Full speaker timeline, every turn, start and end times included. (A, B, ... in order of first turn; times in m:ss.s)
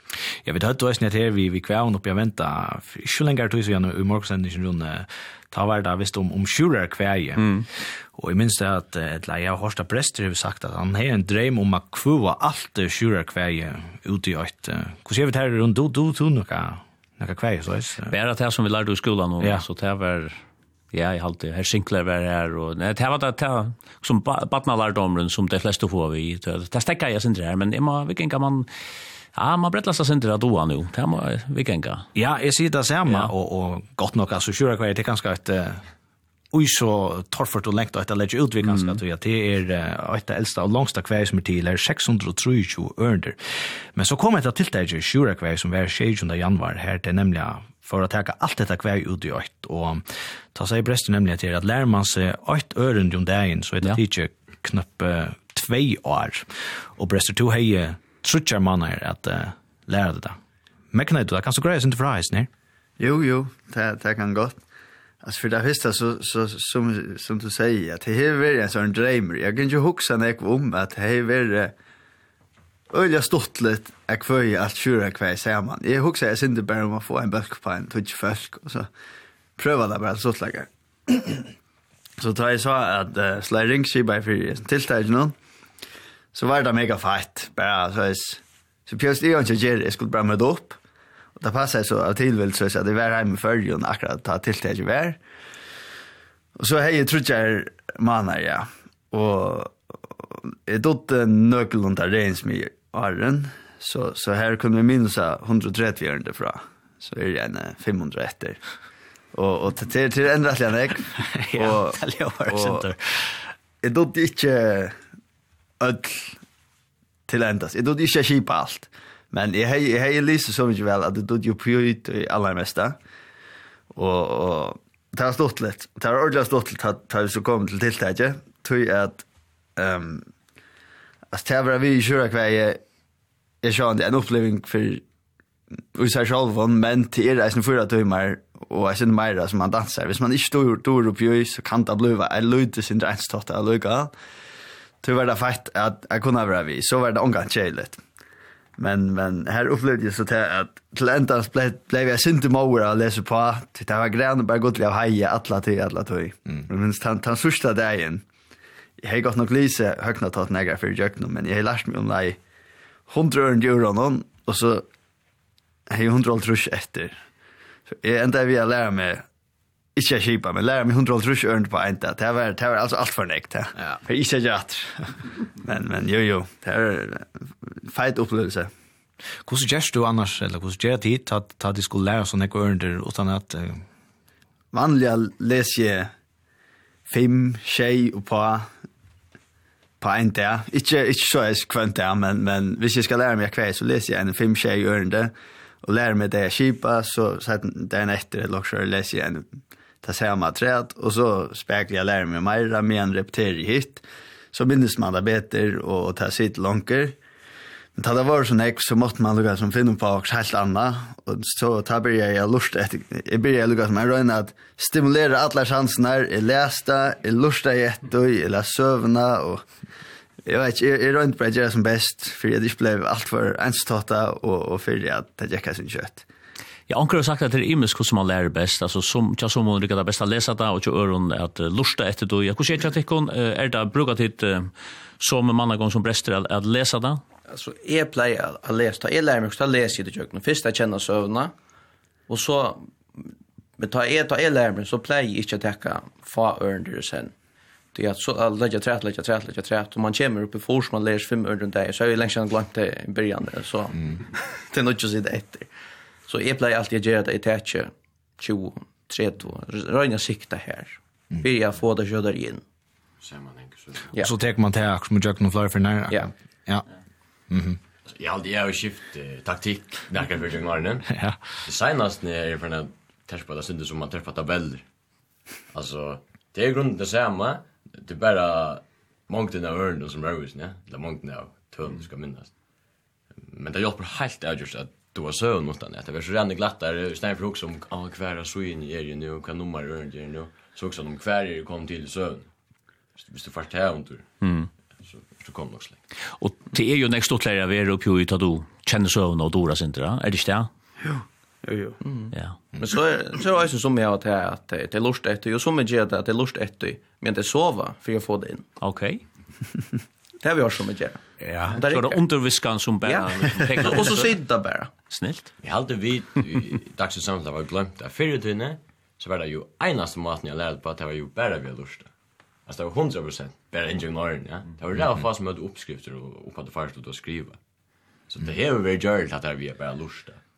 0:00.4-0:18.1 A
0:07.4-0:07.6 B
0:18.1-0:28.7 B
0:19.4-0:19.6 A
0:29.3-0:32.1 B
0:32.1-0:35.8 A
0:36.5-1:00.4 A
0:38.6-0:39.0 B
1:00.9-1:02.5 A
1:03.0-1:04.6 C
1:05.2-1:11.7 C
1:12.9-1:18.9 C
1:19.6-1:21.5 C
1:22.2-1:25.4 C
1:26.3-1:30.8 C
1:31.4-1:35.2 C
1:36.6-1:48.6 C
1:49.3-1:52.9 C
1:51.2-1:53.4 A
1:53.8-1:55.0 C
1:55.8-1:56.4 C
1:57.3-2:03.0 C
2:03.9-2:09.2 C
2:09.8-2:10.3 C
2:11.3-2:12.8 C
2:13.6-2:15.0 C
2:15.9-2:24.1 C
2:25.0-2:28.0 C
2:28.8-2:38.2 C
2:39.0-2:42.4 C
2:43.1-2:44.8 C
2:45.9-2:47.2 C
2:47.9-2:49.2 C
2:49.9-2:58.7 C
2:59.4-3:03.8 A
3:04.7-3:06.1 C
3:07.1-3:08.7 C
3:10.0-3:27.2 C
3:28.0-3:39.6 C
3:40.4-3:46.2 C
3:46.9-3:57.2 B
3:57.5-4:01.5 D
4:02.3-4:07.3 D
4:07.9-4:14.0 D
4:14.7-4:15.7 D
4:16.3-4:22.6 D
4:23.2-4:24.1 E
4:24.2-4:26.8 A
4:27.5-4:27.8 A
4:28.0-4:31.1 E
4:31.1-4:31.4 A
4:31.6-4:34.8 E
4:35.7-4:42.5 E
4:43.4-4:52.5 E
4:53.2-4:54.3 E
4:54.4-4:54.7 B
4:55.0-4:56.0 E
4:56.4-5:00.7 B
5:02.0-5:08.6 D
5:02.3-5:02.6 B
5:08.8-5:09.2 B
5:10.4-5:12.2 D
5:11.4-5:11.8 A
5:11.8-5:14.4 B
5:13.0-5:14.9 D
5:15.1-5:15.5 B
5:15.6-5:22.1 E
5:22.6-5:27.6 E
5:28.3-5:30.4 E